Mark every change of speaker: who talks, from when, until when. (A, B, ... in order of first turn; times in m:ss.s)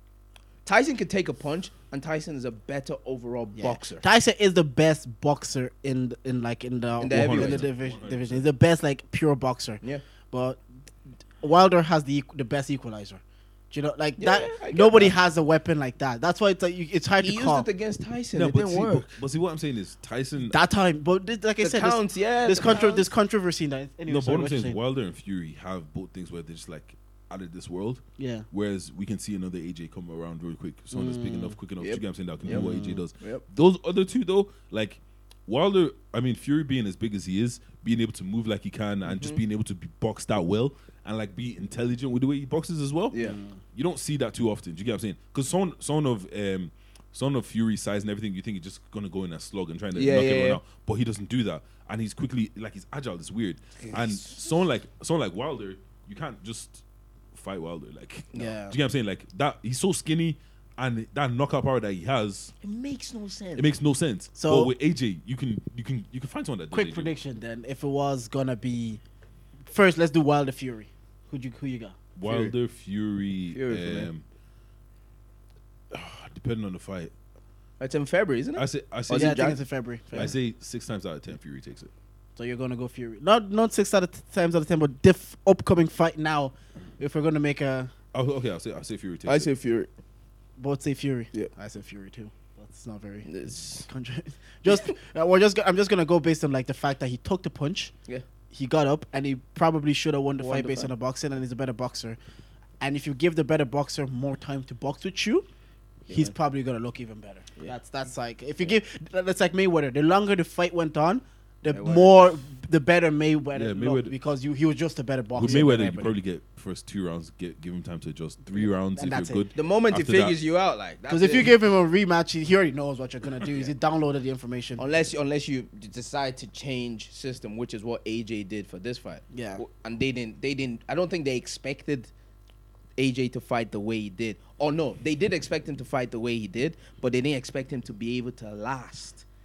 0:00.6-0:04.0 A
0:03.6-0:10.6 B
0:07.0-0:07.7 A
0:07.1-0:08.4 C
0:11.4-0:17.7 B
0:14.2-0:15.2 A
0:17.2-0:19.2 A
0:18.3-0:20.6 C
0:20.4-0:24.8 B
0:21.6-0:23.1 A
0:24.1-1:02.5 C
0:28.2-0:28.5 B
0:30.9-0:31.6 B
0:31.8-0:33.4 A
0:32.4-0:33.0 B
0:39.0-0:39.4 A
0:43.1-0:43.4 A
0:43.2-0:43.6 B
0:49.9-0:50.6 A
0:53.8-0:54.5 A
0:58.4-0:58.8 B
1:02.6-1:03.7 A
1:03.6-1:07.1 C
1:04.4-1:04.7 B
1:06.7-1:09.0 B
1:09.7-1:12.0 B
1:12.2-1:14.2 C
1:12.2-1:12.5 A
1:13.5-1:14.1 A
1:15.9-1:17.1 C
1:17.8-1:19.6 A
1:18.6-1:19.5 C
1:19.1-1:20.4 B
1:20.1-1:21.9 C
1:22.4-1:27.9 B
1:28.1-1:29.5 C
1:29.3-1:29.9 A
1:30.6-1:37.9 B
1:33.3-1:33.9 A
1:34.7-1:34.9 A
1:38.5-1:42.2 B
1:40.4-1:40.9 A
1:42.8-1:45.5 B
1:46.1-1:56.2 B
1:46.1-1:46.3 A
1:51.7-1:52.4 A
1:53.5-1:54.1 C
1:55.4-2:00.4 C
1:55.4-1:55.7 A
1:58.5-1:59.5 B
1:59.6-2:01.5 A
2:01.1-2:04.8 B
2:04.8-2:12.1 A
2:09.3-2:09.6 B
2:13.0-2:19.2 A